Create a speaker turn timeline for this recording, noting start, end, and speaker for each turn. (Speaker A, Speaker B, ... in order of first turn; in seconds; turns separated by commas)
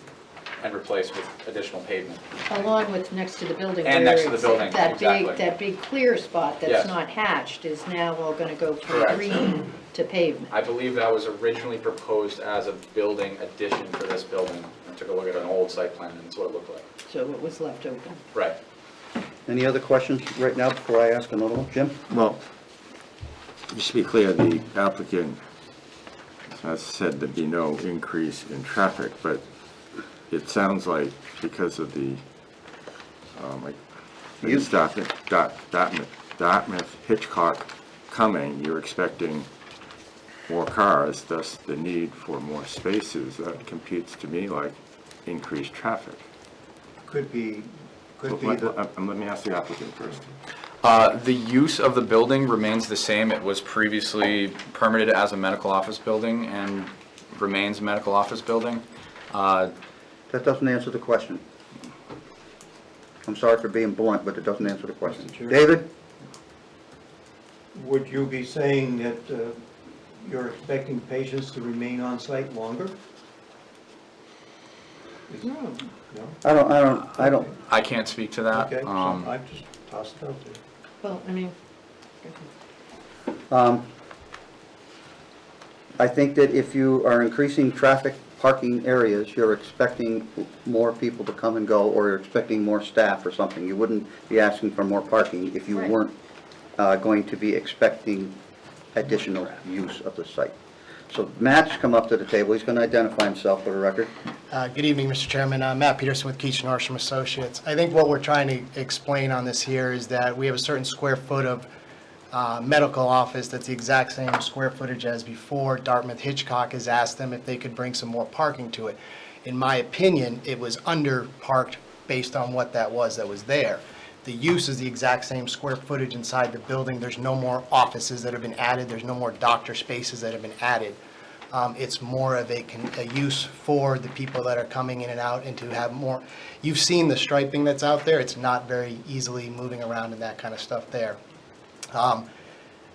Speaker A: 0.6-2.2, Speaker B: 2.5-10.5, Speaker A: 3.8-5.4, Speaker A: 6.7-6.9, Speaker A: 8.8-9.4, Speaker A: 10.5-16.8, Speaker B: 17.1-18.2, Speaker C: 19.5-22.0, Speaker D: 23.7-25.4, Speaker D: 26.5-29.4, Speaker D: 30.3-32.2, Speaker D: 33.3-33.8, Speaker D: 34.4-39.5, Speaker C: 34.4-34.7, Speaker D: 40.5-46.2, Speaker E: 47.0-48.8, Speaker D: 48.3-50.2, Speaker A: 50.8-59.7, Speaker C: 60.3-61.4, Speaker C: 63.2-65.9, Speaker E: 65.0-65.7, Speaker E: 67.7-69.6, Speaker E: 70.2-73.0, Speaker E: 75.3-76.4, Speaker C: 76.4-77.5, Speaker E: 77.2-77.5, Speaker A: 77.6-79.3, Speaker E: 78.5-80.6, Speaker B: 81.0-81.5, Speaker C: 83.5-83.8, Speaker C: 86.0-96.1, Speaker C: 96.8-98.4, Speaker C: 98.9-100.5, Speaker C: 101.1-104.1, Speaker F: 104.5-111.7, Speaker F: 112.3-131.0, Speaker F: 131.5-141.2, Speaker F: 141.9-142.3